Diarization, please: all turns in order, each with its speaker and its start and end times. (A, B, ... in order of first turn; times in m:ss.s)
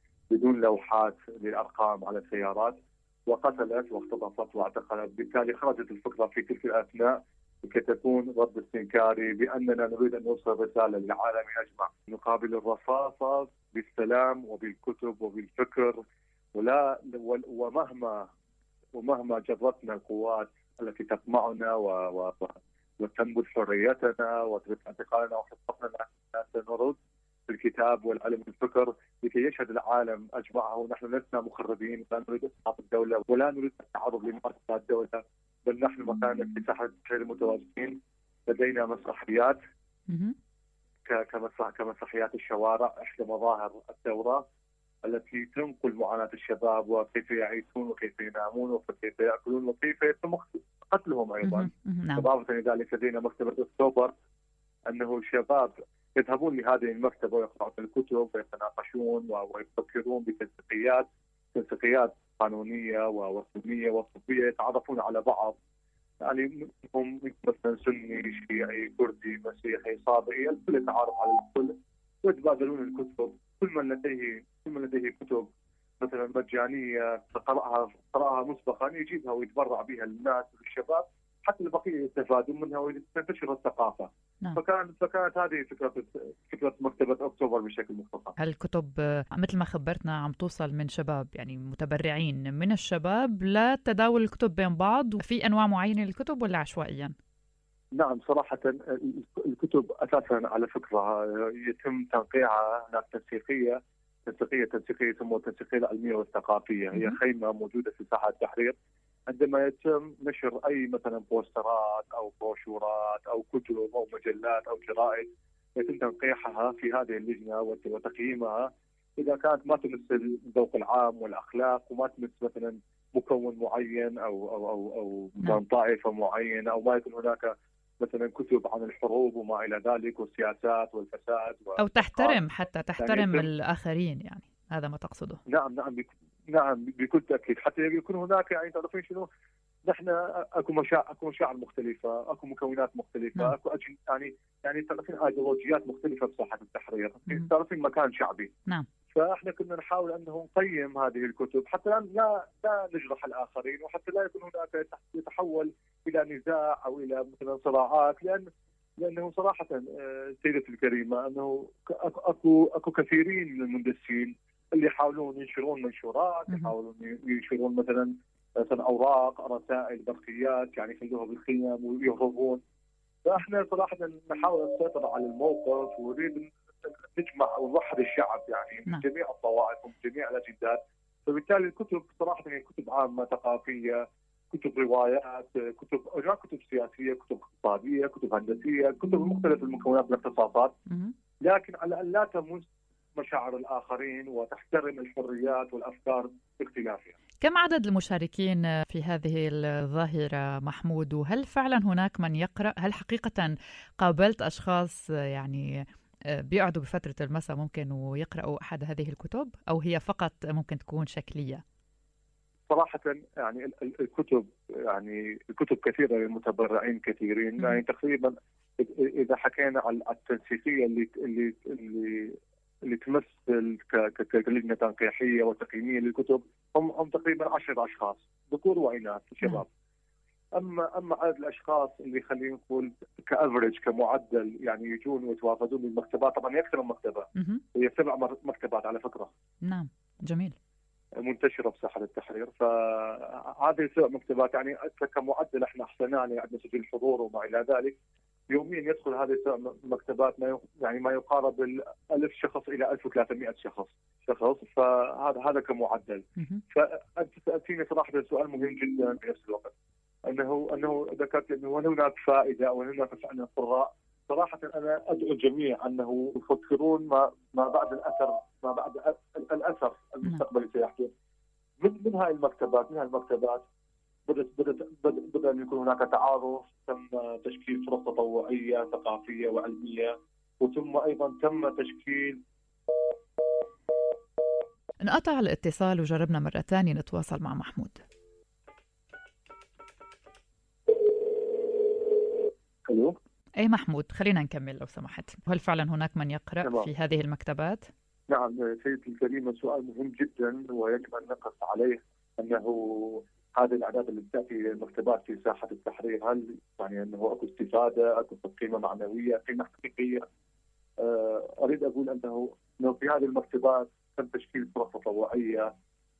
0:00.3-0:16.0 A
0:16.6-0:18.3 A
0:19.0-0:27.0 A
0:27.5-0:39.6 A
0:40.1-0:40.4 B
0:41.1-0:44.4 A
0:45.0-0:54.1 A
0:51.4-0:52.2 B
0:54.9-1:05.6 A
1:06.2-1:15.5 A
1:16.0-1:28.4 A
1:28.4-1:37.2 B
1:38.0-1:48.8 A
1:49.3-2:12.4 A
2:11.8-2:15.4 B
2:13.0-2:13.5 A
2:15.5-2:19.3 A
2:19.9-2:28.5 A
2:29.1-2:38.5 A
2:39.0-2:52.6 A
2:53.2-3:10.8 A
3:10.9-3:11.1 B
3:11.5-3:17.2 A
3:17.4-3:25.8 B
3:26.4-3:31.6 B
3:32.7-3:49.7 A
3:50.6-3:59.3 A
3:57.4-3:57.6 B
3:59.6-4:00.6 B
4:01.2-4:08.0 A
4:08.5-4:19.7 A
4:20.3-4:31.1 A
4:31.8-4:33.6 A
4:34.3-4:42.4 A
4:45.0-4:48.0 B
4:52.9-4:53.2 A
4:53.6-4:57.9 B
4:58.3-5:10.2 A
5:11.0-5:15.7 A